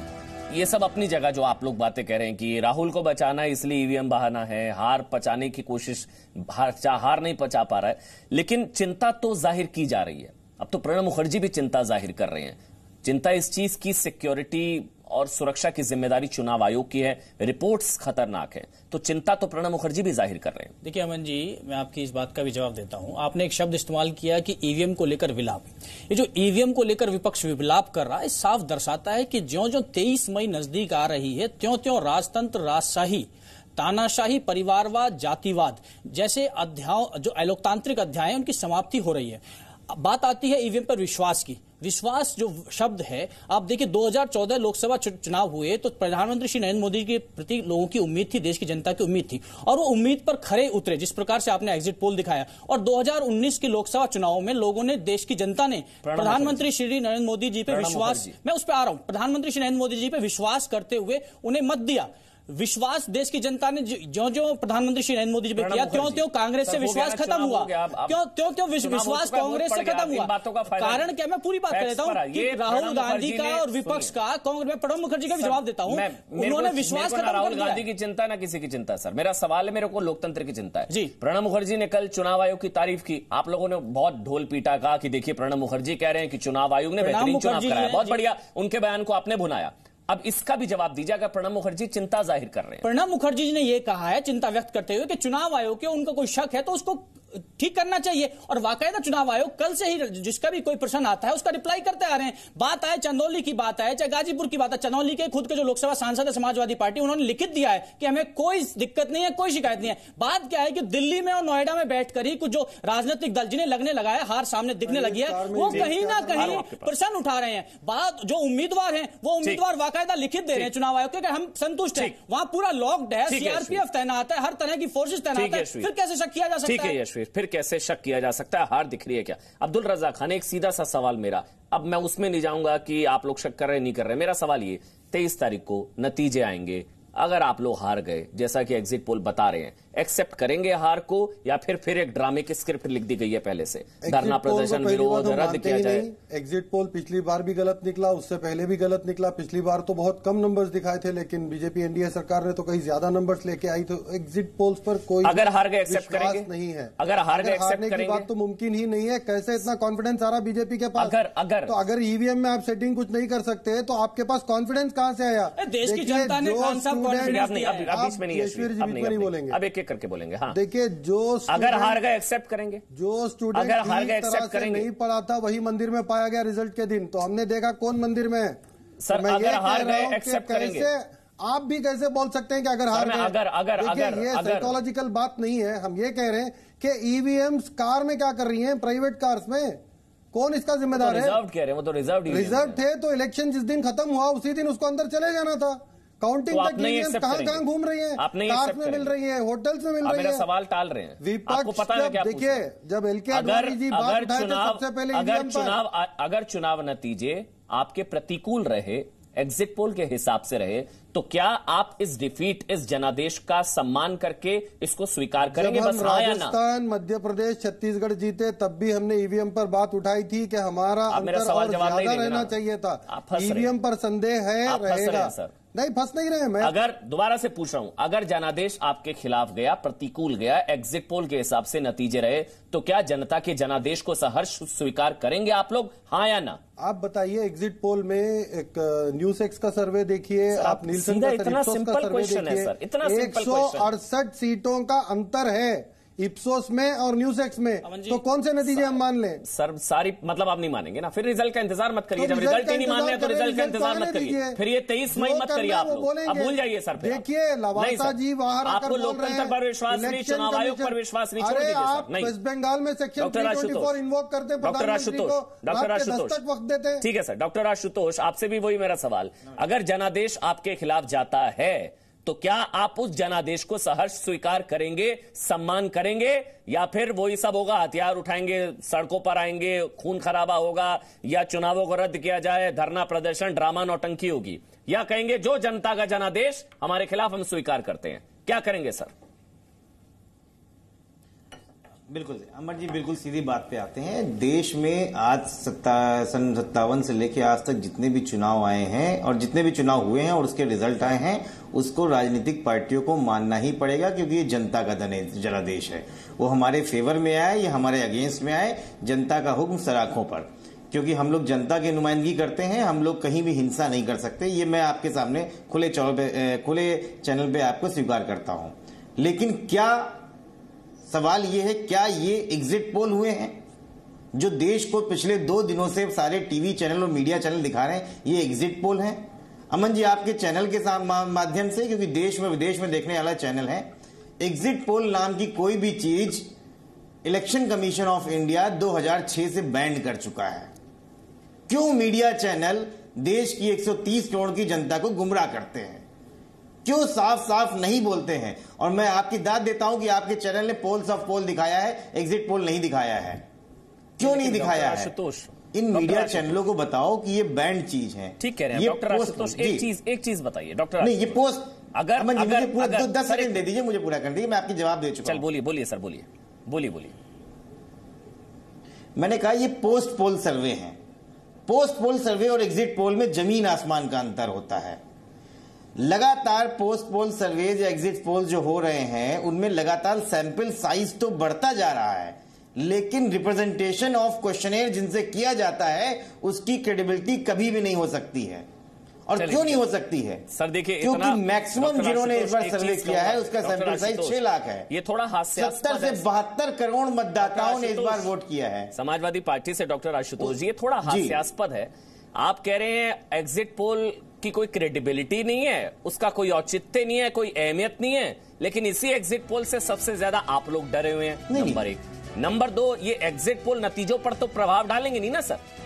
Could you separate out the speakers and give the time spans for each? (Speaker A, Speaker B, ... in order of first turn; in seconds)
Speaker A: 0.5-20.7, 56.0-56.7, 57.7-58.3, 65.5-68.2, 68.8-71.1, 71.7-74.1, 75.3-92.9, 115.7-116.9, 123.3-123.8, 125.3-125.9, 126.6-146.1, 155.2-158.3, 161.0-161.8, 167.2-170.6, 171.5-172.8, 173.5-174.9, 179.0-180.9, 182.9-184.8, 190.9-192.8, 196.5-197.6, 198.2-199.1, 200.0-202.6, 203.3-216.6, 221.1-222.5, 223.1-223.7, 224.6-225.5, 226.6-236.6, 240.5-243.9, 249.4-262.3, 263.2-264.0, 264.6-266.4, 267.0-289.1, 354.2-356.6, 358.4-361.4, 361.9-363.6, 365.2-367.1, 389.4-389.8, 390.5-396.2, 397.4-398.3, 398.9-415.6
Speaker B: 20.8-77.8, 80.9-81.1, 87.0-88.2, 92.8-127.0, 165.6-167.9, 247.8-248.2
Speaker C: 114.8-116.6, 144.0-169.6, 170.5-172.0, 172.9-189.8, 190.3-191.4, 192.3-200.4, 201.2-205.8, 215.5-226.7, 236.8-249.4, 252.2-254.6, 255.1-267.0
Speaker D: 292.1-320.2, 321.1-323.6, 324.3-336.5, 337.2-340.7, 341.7-346.0, 346.8-353.4, 354.2-355.1, 355.7-359.9, 361.0-365.4, 369.2-371.0, 371.7-375.0, 376.0-388.6, 389.2-390.5, 391.0-394.9, 395.6-398.9, 401.0-401.4, 411.5-411.8